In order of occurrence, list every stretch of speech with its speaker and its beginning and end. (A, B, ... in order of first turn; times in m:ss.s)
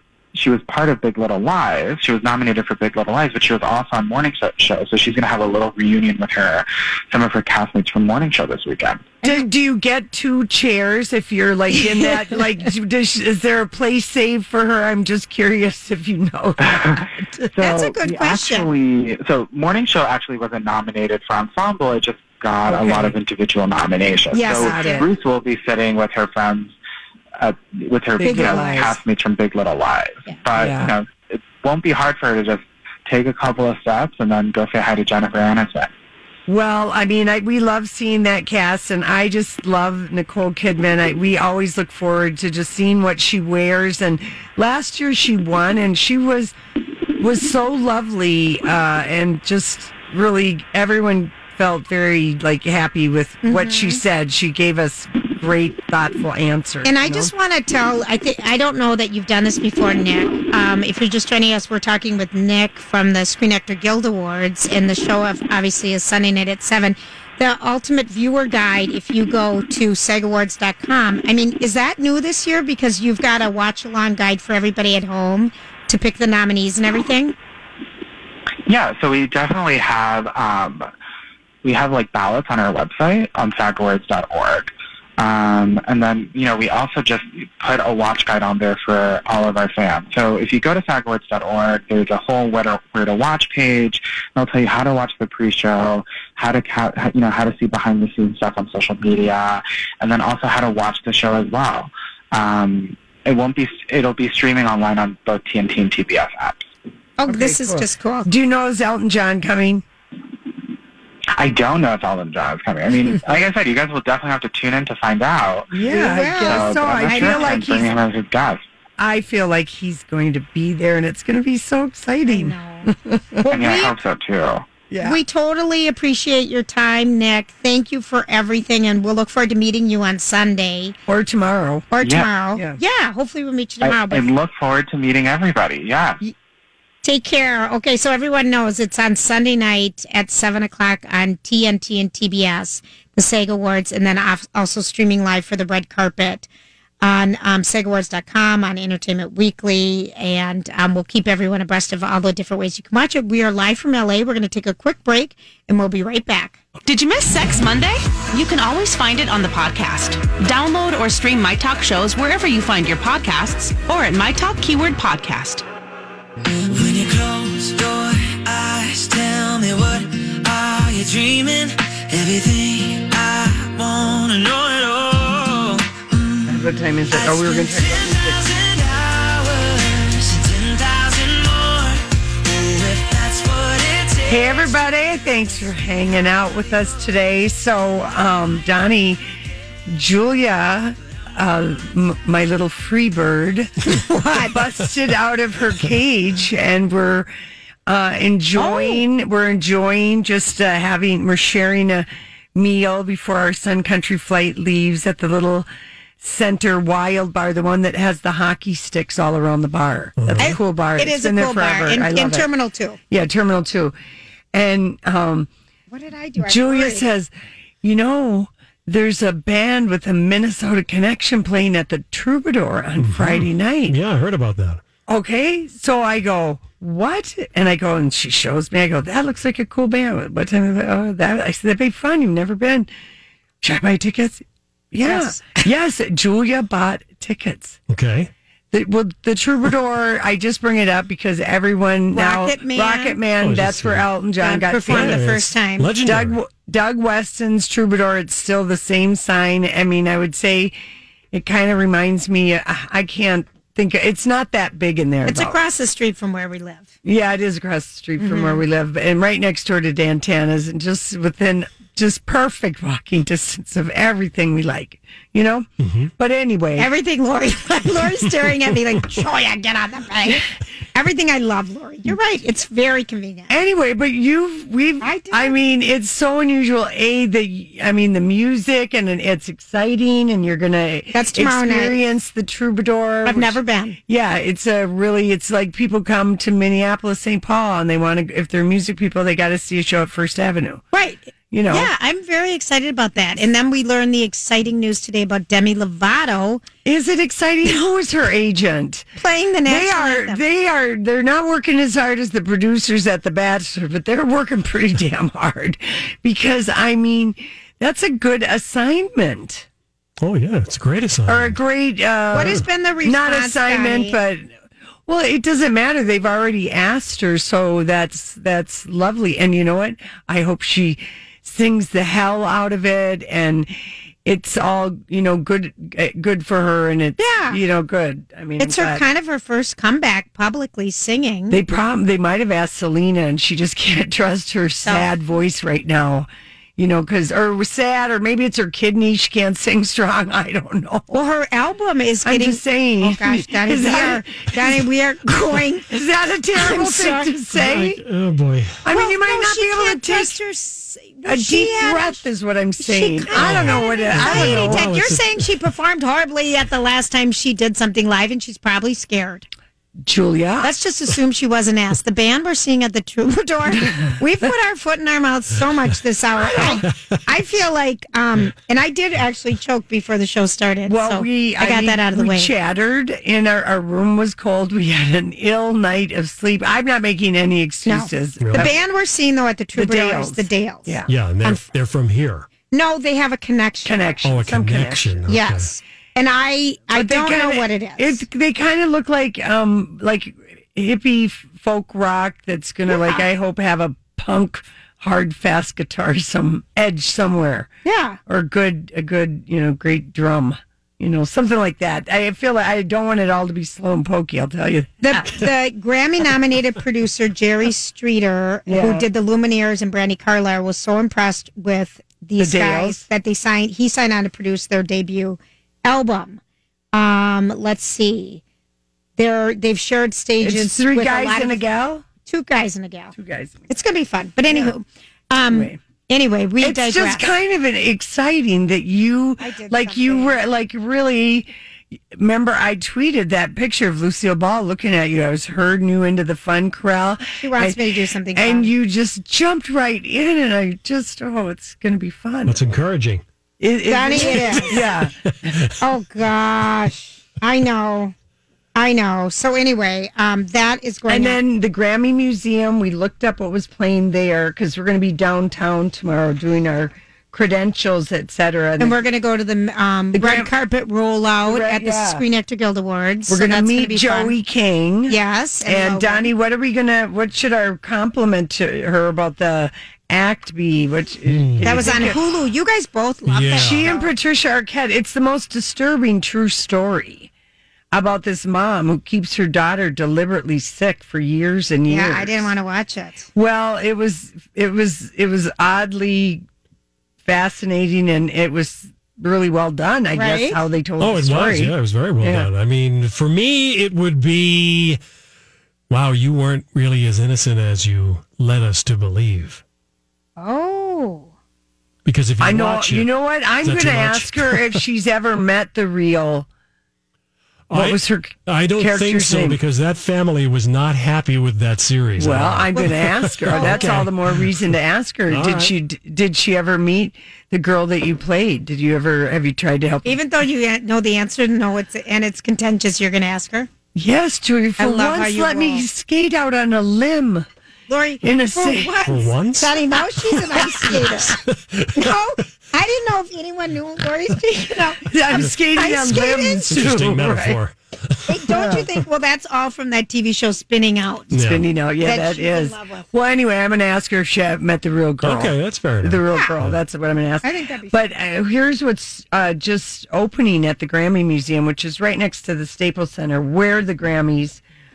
0:00.3-0:09.2 A
0:09.2-0:17.9 B
0:16.6-0:17.0 A
0:17.6-0:18.7 C
0:17.6-0:26.7 A
0:22.7-0:23.2 B
0:24.3-0:25.1 C
0:24.5-0:25.1 B
0:27.4-0:35.9 A
0:28.2-0:29.0 B
0:28.2-0:28.8 C
0:30.5-0:30.9 B
0:36.5-0:46.5 B
0:47.2-0:57.3 B
0:53.4-0:54.0 C
0:56.8-1:17.3 C
1:18.7-1:20.9 A
1:21.6-1:46.7 A
1:47.2-1:48.3 C
1:47.2-1:49.8 B
1:51.4-1:55.7 A
1:55.7-1:57.9 B
1:55.8-1:57.5 C
1:56.4-1:58.6 A
1:59.0-2:03.4 B
2:02.3-2:04.0 C
2:03.5-2:04.6 A
2:04.9-2:05.2 B
2:05.0-2:11.0 C
2:11.1-2:11.9 B
2:11.9-2:14.3 C
2:12.0-2:12.3 A
2:13.8-2:16.2 A
2:17.0-2:26.5 C
2:27.0-2:36.6 C
2:36.8-2:45.6 D
2:46.5-3:04.8 E
2:56.4-2:58.5 B
3:04.3-3:09.2 B
3:09.9-3:13.7 B
3:13.8-3:14.6 C
3:14.4-3:17.3 B
3:17.9-3:25.7 B
3:18.6-3:19.0 C
3:26.2-3:32.5 B
3:30.2-3:30.6 F
3:30.4-3:33.0 C
3:33.1-3:33.9 B
3:34.5-3:35.5 B
3:35.9-3:37.1 C
3:36.4-3:37.3 B
3:37.8-3:44.0 B
3:43.0-3:44.8 F
3:45.1-3:52.9 B
3:53.6-3:57.8 B
3:55.0-3:55.6 C
3:57.9-3:58.3 F
3:58.7-4:05.2 B
4:02.1-4:03.2 C
4:03.4-4:04.1 F
4:04.4-4:05.9 C
4:04.8-4:06.4 F
4:06.0-4:10.7 B
4:11.3-4:15.6 B
4:15.2-4:16.9 C
4:17.0-4:25.7 B
4:18.2-4:18.6 C
4:25.8-4:26.1 F
4:26.2-4:26.9 B
4:26.8-4:33.5 C
4:33.5-4:50.8 B
4:35.0-4:35.6 C
4:41.1-4:42.0 C
4:43.2-4:44.0 C
4:50.9-4:56.6 C
4:51.5-4:51.9 B
4:56.8-4:59.1 B
4:59.2-5:00.4 C
4:59.6-5:09.6 B
5:10.2-5:11.6 F
5:11.3-5:14.5 B
5:12.3-5:14.2 C
5:15.1-5:23.7 B
5:24.2-5:29.0 B
5:27.2-5:27.6 C
5:28.6-5:31.6 C
5:31.5-5:41.1 B
5:34.8-5:35.1 C
5:41.1-5:45.9 C
5:42.2-5:48.0 B
5:46.5-5:47.3 C
5:47.6-5:48.8 F
5:48.8-5:50.4 B
5:48.9-5:52.2 C
5:51.2-5:54.9 B
5:52.8-5:59.5 C
5:53.3-5:55.4 F
6:00.0-6:00.7 B
6:00.6-6:12.5 C
6:06.4-6:06.8 B
6:10.8-6:18.8 B
6:17.8-6:21.6 C
6:18.4-6:18.7 F
6:19.7-6:21.1 B
6:21.1-6:22.5 F
6:22.7-6:24.2 C
6:23.8-6:25.2 B
6:24.2-6:25.7 F
6:25.3-6:28.2 C
6:26.9-6:37.7 B
6:32.9-6:33.2 C
6:37.8-6:38.2 C
6:38.2-6:45.3 B
6:45.0-6:56.4 C
6:48.7-6:49.1 B
6:52.4-6:53.0 B
6:56.9-6:58.4 C
6:59.2-7:01.6 C
7:00.4-7:02.0 B
7:02.2-7:03.1 C
7:03.1-7:03.6 B
7:03.7-7:07.3 C
7:04.5-7:04.7 B
7:05.5-7:05.8 B
7:06.6-7:11.5 B
7:09.4-7:10.4 C
7:12.1-7:22.6 B
7:17.4-7:18.7 C
7:22.5-7:23.2 F
7:23.6-7:25.5 B
7:23.9-7:24.9 C
7:25.8-7:28.1 C
7:28.7-7:31.4 C
7:31.1-7:39.0 B
7:38.8-7:44.4 C
7:40.1-7:40.5 B
7:41.4-7:42.2 B
7:43.3-7:52.2 B
7:45.1-7:46.3 C
7:51.3-7:51.9 F
7:51.6-7:54.1 C
7:53.3-7:53.9 F
7:53.5-7:57.3 B
7:57.9-8:02.5 B
8:01.9-8:03.3 C
8:03.3-8:06.4 B
8:07.2-8:12.5 B
8:10.1-8:10.6 C
8:11.0-8:15.0 F
8:15.9-8:19.6 F
8:20.4-8:21.3 C
8:22.0-8:23.1 F
8:22.4-8:26.5 B
8:23.6-8:24.8 F
8:27.7-8:34.6 F
8:27.7-8:29.6 B
8:32.2-8:40.2 B
8:32.7-8:33.8 C
8:35.3-8:35.7 F
8:40.0-8:43.7 C
8:43.9-8:47.5 B
8:44.8-8:45.8 C
8:47.9-8:51.4 C
8:48.2-8:49.0 B
8:49.0-8:52.1 F
8:50.6-8:51.1 B
8:51.9-8:56.8 C
8:55.0-8:57.6 B
8:56.7-8:58.8 F
8:58.3-9:01.3 C
8:58.5-8:58.8 B
9:01.3-9:01.6 F
9:01.3-9:14.6 B
9:02.0-9:03.1 C
9:05.2-9:06.8 F
9:07.4-9:08.1 C